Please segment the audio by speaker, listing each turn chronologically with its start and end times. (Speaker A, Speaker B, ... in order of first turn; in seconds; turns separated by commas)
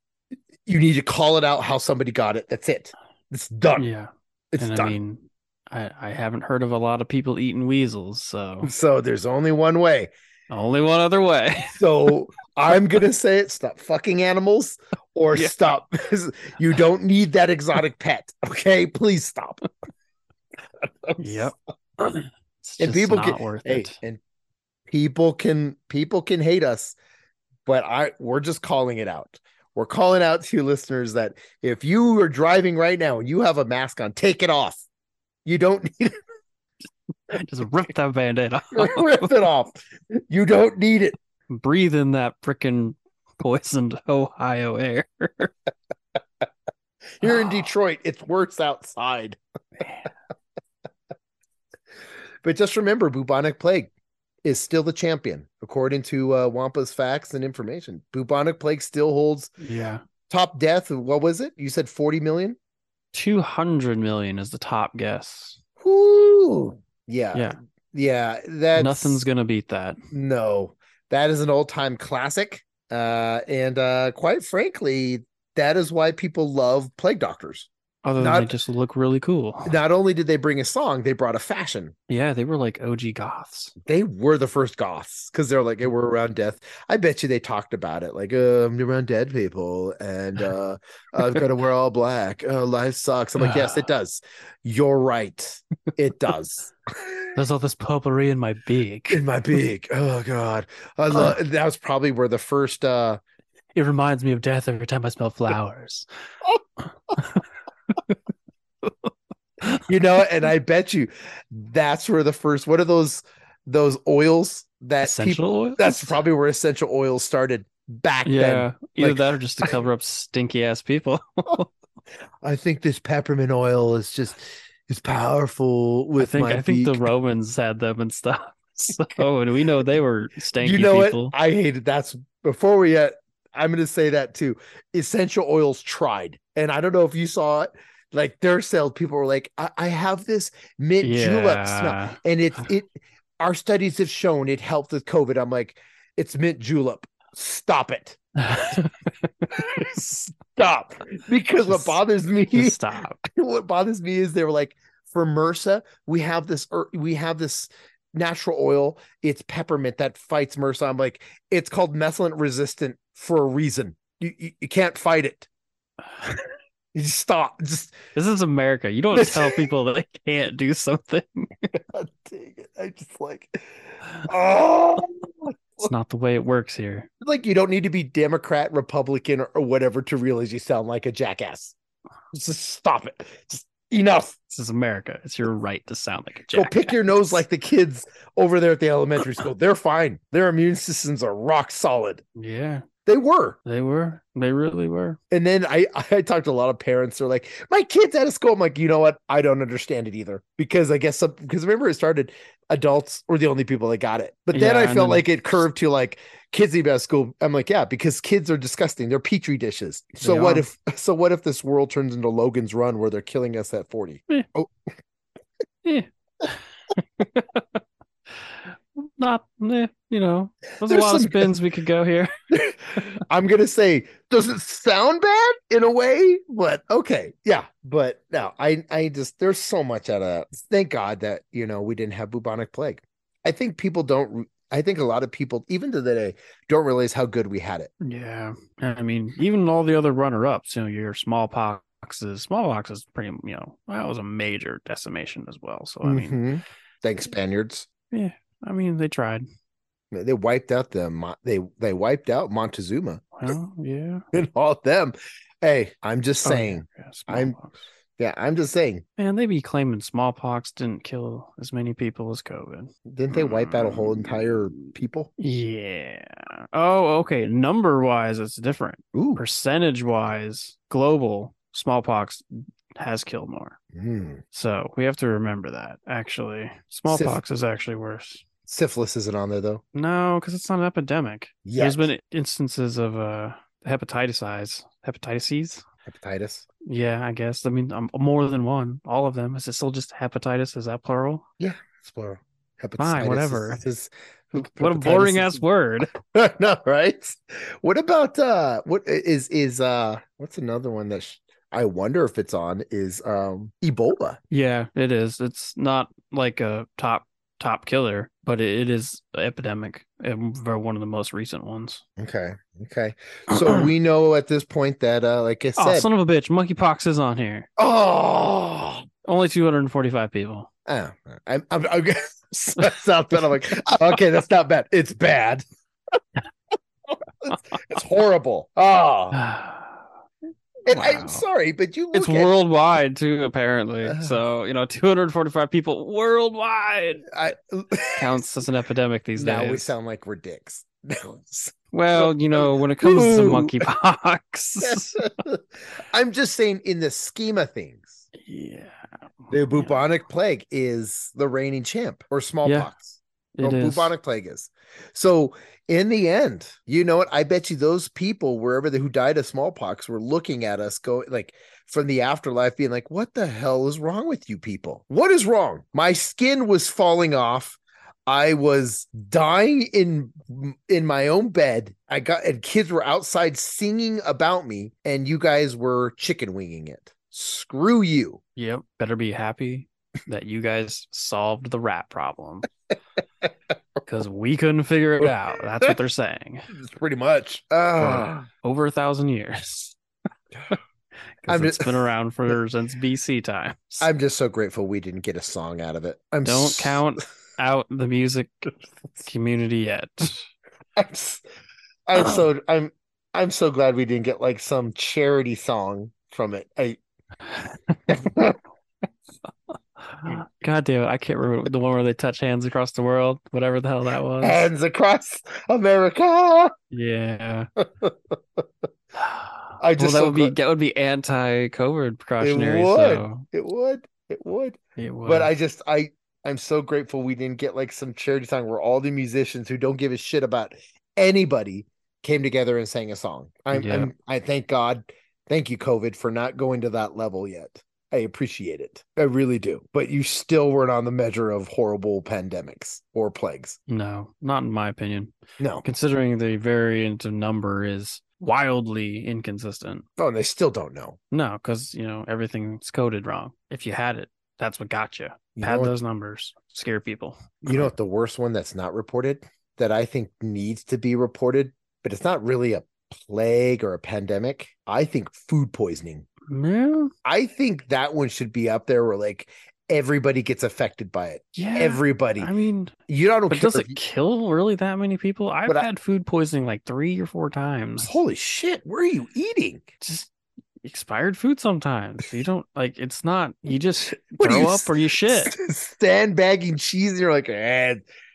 Speaker A: 0.7-3.9, Speaker B: 3.8-8.7, Speaker A: 4.5-5.0, Speaker A: 8.6-10.1, Speaker B: 10.5-11.8, Speaker A: 11.7-19.6, Speaker A: 20.8-21.5, Speaker B: 21.2-24.0, Speaker A: 22.8-24.2, Speaker A: 24.9-26.9, Speaker A: 27.6-34.8, Speaker A: 35.4-36.2, Speaker B: 37.3-39.3, Speaker A: 38.7-41.2, Speaker B: 41.5-45.5, Speaker A: 47.2-49.4, Speaker B: 47.2-47.6, Speaker B: 49.8-50.1, Speaker A: 52.4-53.9, Speaker A: 54.4-59.5, Speaker B: 59.6-60.0, Speaker A: 60.3-62.6, Speaker B: 63.1-65.6, Speaker A: 65.8-69.2, Speaker B: 68.7-70.0, Speaker A: 70.1-78.5, Speaker B: 78.0-79.7, Speaker A: 79.6-81.9, Speaker B: 82.1-83.7, Speaker A: 83.8-97.4, Speaker B: 93.4-93.8, Speaker B: 97.3-99.2, Speaker A: 99.1-103.2, Speaker B: 103.7-106.0, Speaker B: 107.2-108.1, Speaker A: 109.8-119.8, Speaker B: 115.0-116.2, Speaker B: 118.2-121.7, Speaker A: 122.4-127.0, Speaker B: 126.2-131.3, Speaker A: 130.6-148.8, Speaker B: 141.0-142.2, Speaker B: 148.4-149.5, Speaker A: 149.5-165.5, Speaker B: 151.7-152.0, Speaker B: 152.5-153.2, Speaker A: 166.9-167.9, Speaker B: 168.1-171.7, Speaker A: 169.1-169.7, Speaker A: 171.9-173.7, Speaker A: 174.2-175.9, Speaker B: 175.8-177.1, Speaker A: 177.2-181.7, Speaker A: 182.3-184.3, Speaker B: 184.5-187.4, Speaker A: 186.5-192.2, Speaker B: 192.3-192.8, Speaker A: 193.1-193.6, Speaker B: 193.6-195.2, Speaker A: 195.3-214.7, Speaker B: 204.5-205.2, Speaker B: 210.2-210.7, Speaker B: 215.8-222.3, Speaker A: 220.8-221.5, Speaker A: 222.5-237.9, Speaker B: 238.0-246.4, Speaker A: 246.0-247.9, Speaker B: 248.1-249.4, Speaker A: 250.1-253.5, Speaker B: 253.3-254.2, Speaker A: 254.3-257.6, Speaker B: 256.4-257.8, Speaker A: 258.2-259.0, Speaker B: 259.2-272.4, Speaker A: 263.1-265.3, Speaker A: 269.1-269.4, Speaker B: 272.9-273.8, Speaker A: 273.9-274.4, Speaker B: 274.5-278.4, Speaker A: 277.1-277.4, Speaker A: 278.7-279.8, Speaker B: 279.9-285.8, Speaker A: 281.6-282.1, Speaker A: 286.1-286.6, Speaker B: 286.9-291.4, Speaker A: 291.6-304.4, Speaker B: 293.0-293.8, Speaker B: 294.5-296.1, Speaker B: 304.5-312.0, Speaker A: 312.2-316.1, Speaker B: 313.5-313.9, Speaker B: 315.8-317.7, Speaker A: 317.8-319.1, Speaker B: 319.2-320.7, Speaker A: 320.9-325.6, Speaker A: 327.1-329.4, Speaker B: 329.3-330.0, Speaker A: 330.9-332.5, Speaker B: 330.9-331.4, Speaker B: 332.1-337.2, Speaker A: 334.0-334.4, Speaker A: 337.3-338.4, Speaker B: 338.2-339.9, Speaker A: 339.4-343.8, Speaker B: 341.9-345.3, Speaker A: 344.8-348.2, Speaker B: 348.3-349.9, Speaker A: 349.5-378.4, Speaker B: 352.6-352.9, Speaker B: 353.5-354.1, Speaker B: 378.6-382.7, Speaker B: 384.0-386.7, Speaker A: 386.7-388.5, Speaker B: 388.0-389.9, Speaker B: 391.4-394.1, Speaker A: 391.5-391.9, Speaker A: 394.0-397.0, Speaker B: 396.4-400.5, Speaker A: 401.0-401.4, Speaker A: 402.1-407.0, Speaker B: 407.5-408.2, Speaker A: 408.1-408.6, Speaker B: 410.0-414.7, Speaker A: 414.4-416.7, Speaker B: 416.9-417.7, Speaker A: 417.8-418.6, Speaker B: 419.2-423.4, Speaker A: 419.8-420.6, Speaker A: 422.4-443.8, Speaker B: 425.0-425.5, Speaker B: 433.7-434.1, Speaker B: 443.9-445.3, Speaker A: 445.6-445.8, Speaker B: 445.8-450.0, Speaker A: 450.2-451.2, Speaker B: 451.3-457.9, Speaker A: 455.6-456.0, Speaker A: 457.7-466.2, Speaker B: 466.5-467.1, Speaker A: 467.2-472.5, Speaker B: 471.6-472.9, Speaker A: 473.1-474.0, Speaker B: 473.5-478.2, Speaker A: 478.0-479.9, Speaker B: 480.0-480.3, Speaker B: 480.8-485.5, Speaker A: 484.1-488.0